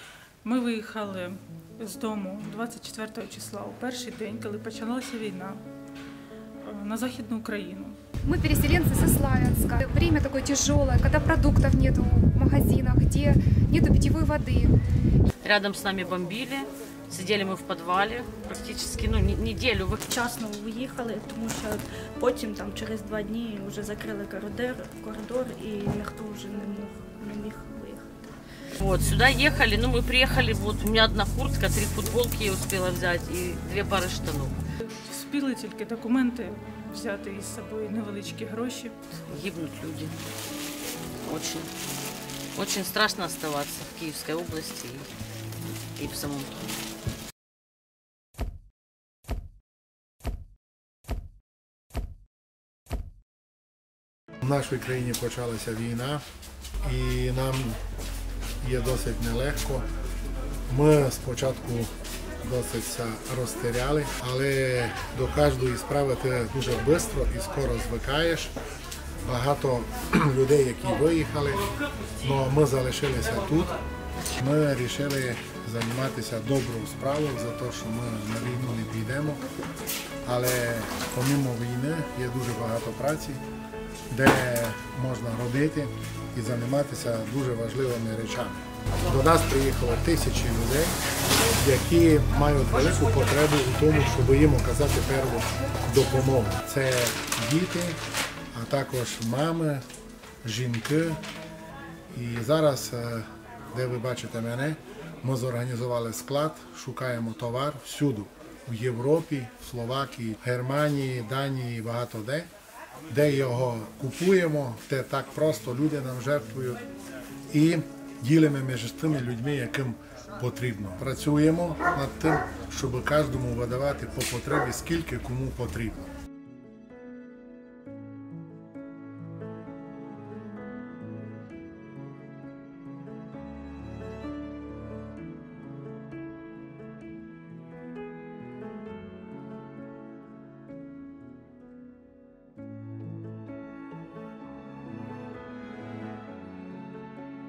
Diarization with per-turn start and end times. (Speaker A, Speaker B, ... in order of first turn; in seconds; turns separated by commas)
Speaker A: 0.4-5.6, Speaker A: 6.6-8.0, Speaker B: 8.2-14.7, Speaker C: 15.4-20.2, Speaker D: 20.2-28.4, Speaker C: 28.8-34.6, Speaker A: 35.0-39.0, Speaker C: 39.3-40.1, Speaker C: 41.2-41.7, Speaker C: 42.5-45.1, Speaker C: 46.0-46.7, Speaker E: 54.4-56.2, Speaker E: 56.8-57.8, Speaker E: 58.6-59.9, Speaker E: 60.7-68.5, Speaker E: 69.2-73.8, Speaker E: 74.4-79.4, Speaker E: 80.3-83.4, Speaker E: 84.1-91.0, Speaker E: 91.5-98.0, Speaker E: 98.5-99.8, Speaker E: 100.4-101.2, Speaker E: 102.1-112.5, Speaker E: 113.1-116.8, Speaker E: 117.5-126.1